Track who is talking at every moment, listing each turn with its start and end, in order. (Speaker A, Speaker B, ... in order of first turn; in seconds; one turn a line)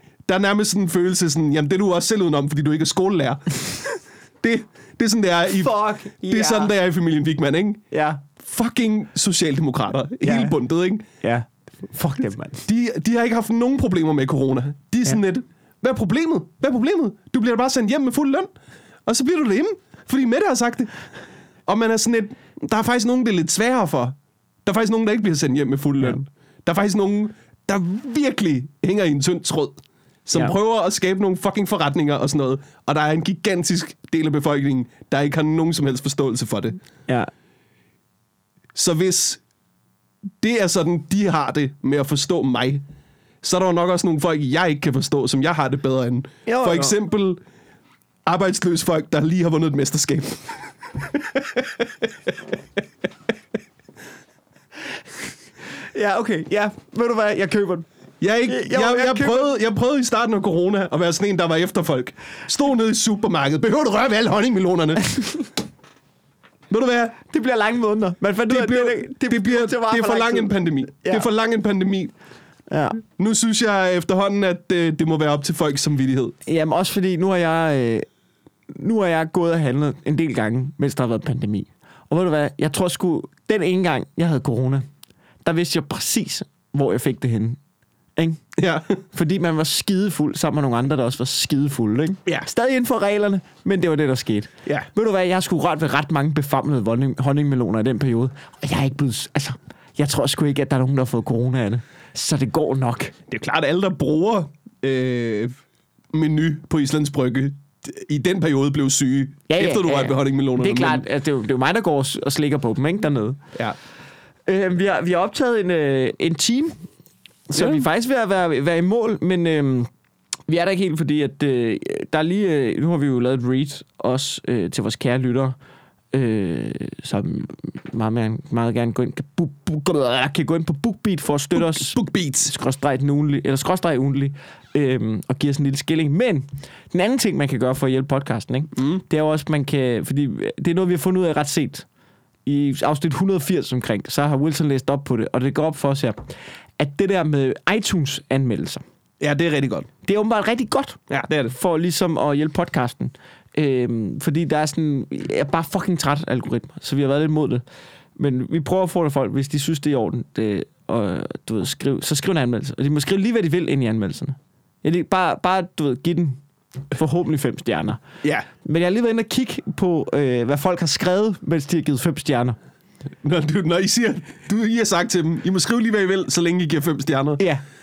Speaker A: 0.3-7.8
Speaker B: 5.6-6.7
Speaker B: 7.9-8.2
Speaker A: 8.4-11.0
Speaker B: 10.2-10.6
Speaker B: 11.2-12.7
Speaker A: 12.7-18.5
Speaker A: 19.1-20.9
Speaker A: 21.6-36.8
Speaker A: 38.7-39.4
Speaker A: 40.4-42.8
Speaker A: 43.4-47.4
Speaker B: 46.5-47.0
Speaker A: 48.2-52.3
Speaker B: 55.9-57.9
Speaker A: 58.2-65.4
Speaker B: 58.5-59.5
Speaker A: 66.7-67.2
Speaker B: 67.3-71.3
Speaker A: 68.5-72.1
Speaker B: 72.7-73.0
Speaker A: 73.0-76.3
Speaker B: 76.5-78.0
Speaker B: 78.7-84.8
Speaker B: 85.4-87.6
Speaker B: 88.2-88.4
Speaker A: 88.6-89.0
Speaker B: 89.1-103.1
Speaker A: 103.3-105.5
Speaker A: 106.1-111.0
Speaker B: 109.5-113.4
Speaker B: 114.5-116.8
Speaker B: 117.5-119.9
Speaker A: 117.5-117.8
Speaker B: 120.5-125.5
Speaker B: 126.1-141.8
Speaker A: 131.5-132.5
Speaker B: 142.4-148.8
Speaker A: 149.2-149.9
Speaker B: 150.0-157.6
Speaker A: 151.1-151.5
Speaker B: 158.2-168.0
Speaker B: 168.6-172.6
Speaker A: 173.2-177.4